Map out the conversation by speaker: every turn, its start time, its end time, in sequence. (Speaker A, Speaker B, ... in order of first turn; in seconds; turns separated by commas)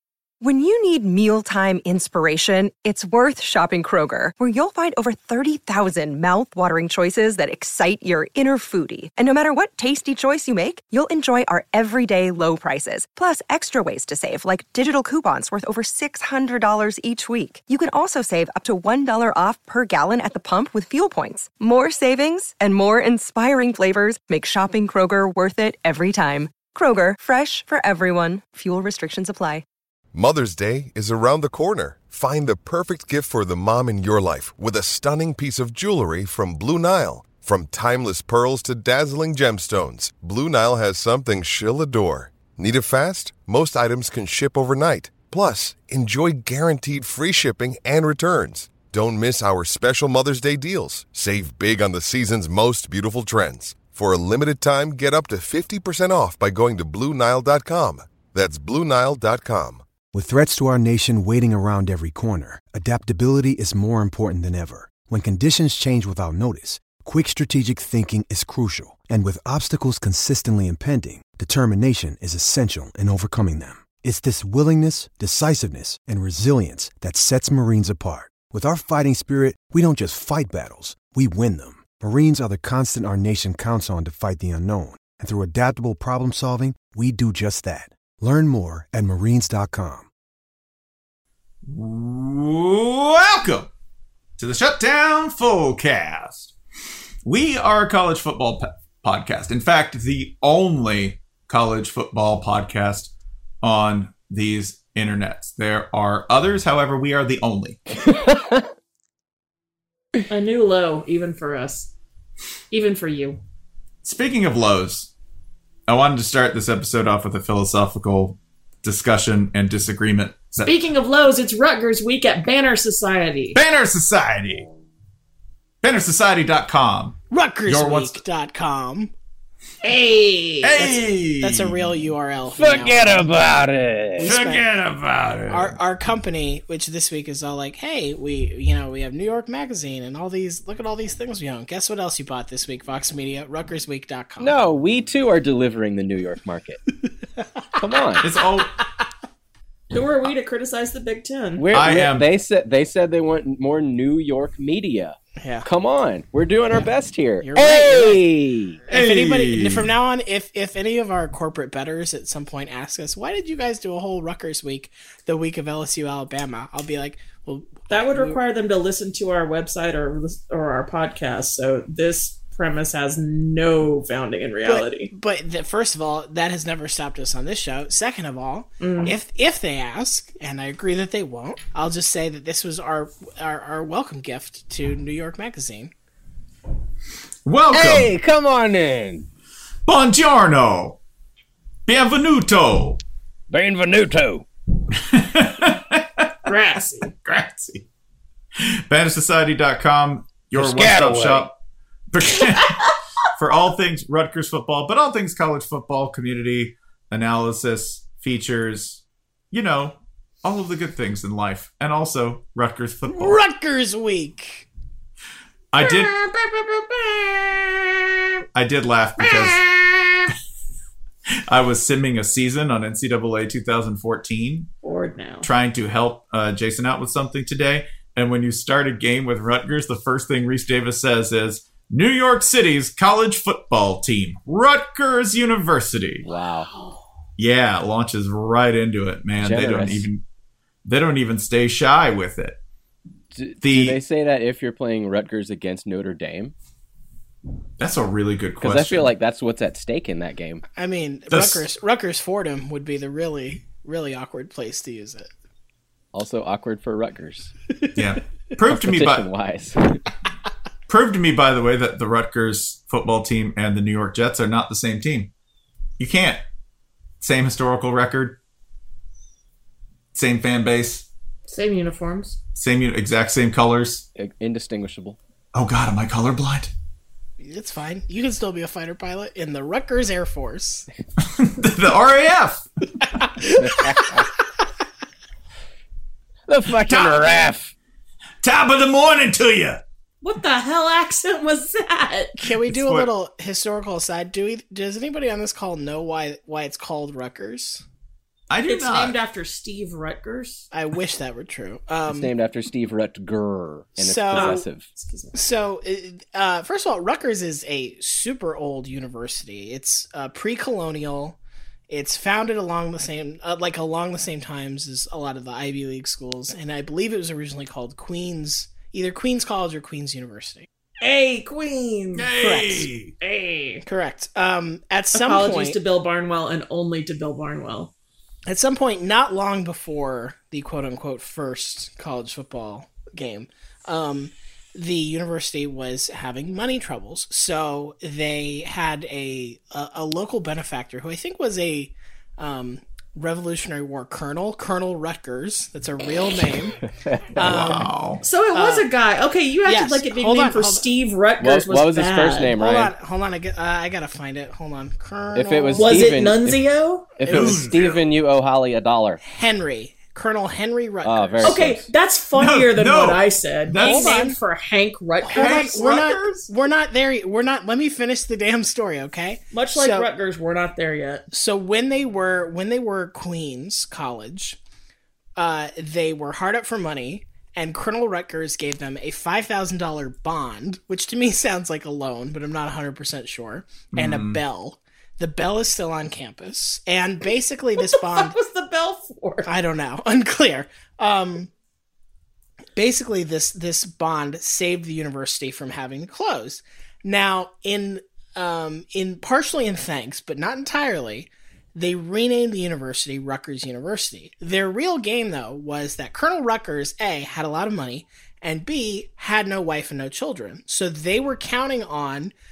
Speaker A: 0.4-29.6, Speaker B: 30.1-59.8, Speaker C: 60.1-90.1, Speaker D: 91.6-93.7, Speaker D: 94.4-96.5, Speaker D: 97.2-107.8, Speaker E: 107.9-108.6, Speaker F: 110.3-111.9, Speaker F: 112.7-113.4, Speaker D: 114.0-115.1, Speaker D: 115.9-120.7, Speaker F: 120.6-123.6, Speaker D: 123.5-124.7, Speaker D: 125.8-128.2, Speaker G: 127.3-129.1, Speaker F: 129.8-130.9, Speaker D: 130.6-131.9, Speaker G: 130.8-133.3, Speaker E: 132.4-134.3, Speaker G: 134.2-134.6, Speaker D: 134.2-135.7, Speaker G: 135.5-144.6, Speaker E: 144.4-146.8, Speaker G: 147.4-148.2, Speaker E: 147.8-148.2, Speaker D: 148.2-148.7, Speaker F: 149.9-151.6, Speaker E: 151.6-158.8, Speaker D: 151.7-152.2, Speaker G: 155.4-155.7, Speaker G: 157.4-158.2, Speaker G: 158.9-168.4, Speaker D: 158.9-159.9, Speaker F: 167.9-175.1, Speaker G: 174.6-185.9, Speaker F: 178.8-179.1, Speaker D: 187.4-188.1, Speaker E: 187.7-189.3, Speaker D: 189.8-191.0, Speaker D: 191.8-193.0, Speaker E: 193.5-194.4, Speaker D: 194.9-196.3, Speaker F: 196.5-197.1, Speaker D: 196.9-197.8, Speaker D: 198.6-201.5, Speaker E: 200.6-201.5, Speaker D: 202.1-202.8, Speaker D: 203.4-213.4, Speaker G: 213.1-214.7, Speaker D: 215.7-216.2, Speaker G: 215.8-217.9, Speaker D: 218.5-219.7, Speaker G: 219.2-220.3, Speaker D: 221.5-224.7, Speaker F: 224.8-225.5, Speaker D: 225.4-236.2, Speaker E: 236.2-236.7, Speaker D: 237.4-240.2, Speaker E: 239.4-240.1, Speaker D: 240.8-242.6, Speaker E: 243.3-246.5, Speaker D: 243.6-244.0, Speaker D: 247.8-249.1, Speaker E: 248.6-250.6, Speaker G: 250.8-255.3, Speaker D: 251.3-251.6, Speaker E: 256.1-257.5, Speaker D: 257.9-259.3, Speaker E: 258.7-260.0, Speaker D: 260.9-265.3, Speaker D: 266.0-266.4, Speaker D: 267.2-268.4, Speaker D: 270.1-271.1, Speaker F: 271.5-272.4, Speaker D: 272.5-274.0, Speaker E: 274.1-275.2, Speaker D: 275.5-276.7, Speaker G: 277.4-280.9, Speaker D: 281.3-282.6, Speaker G: 283.0-284.3, Speaker E: 283.6-284.3, Speaker E: 286.5-287.7, Speaker D: 286.9-287.4, Speaker D: 288.4-289.8, Speaker F: 290.2-292.4, Speaker G: 292.4-297.8, Speaker D: 292.6-293.1, Speaker D: 298.5-299.2, Speaker F: 298.6-300.7, Speaker G: 300.7-302.3, Speaker E: 302.1-304.9, Speaker G: 304.0-304.6, Speaker F: 304.3-305.4, Speaker G: 305.3-311.4, Speaker G: 311.9-320.7, Speaker F: 321.0-322.3, Speaker D: 322.1-323.1, Speaker G: 322.4-322.9, Speaker F: 323.2-323.8, Speaker G: 323.9-325.8, Speaker F: 325.1-327.9, Speaker G: 328.4-346.8, Speaker E: 346.9-347.7, Speaker G: 347.4-347.9, Speaker D: 347.4-348.2, Speaker F: 348.2-352.5, Speaker G: 348.5-348.9, Speaker G: 349.6-350.9, Speaker E: 351.4-352.9, Speaker G: 352.5-356.2, Speaker E: 355.3-356.6, Speaker F: 355.8-357.1, Speaker E: 357.2-359.2, Speaker G: 357.2-358.0, Speaker D: 357.3-358.0, Speaker G: 359.2-361.6, Speaker E: 361.0-361.8, Speaker F: 361.4-366.0, Speaker D: 362.3-364.1, Speaker G: 363.7-364.4, Speaker G: 365.2-370.1, Speaker D: 365.3-366.5, Speaker F: 369.5-371.2, Speaker G: 371.3-374.6, Speaker G: 375.4-388.4, Speaker D: 383.9-384.4, Speaker F: 387.8-389.5, Speaker G: 389.4-391.5, Speaker G: 392.8-412.3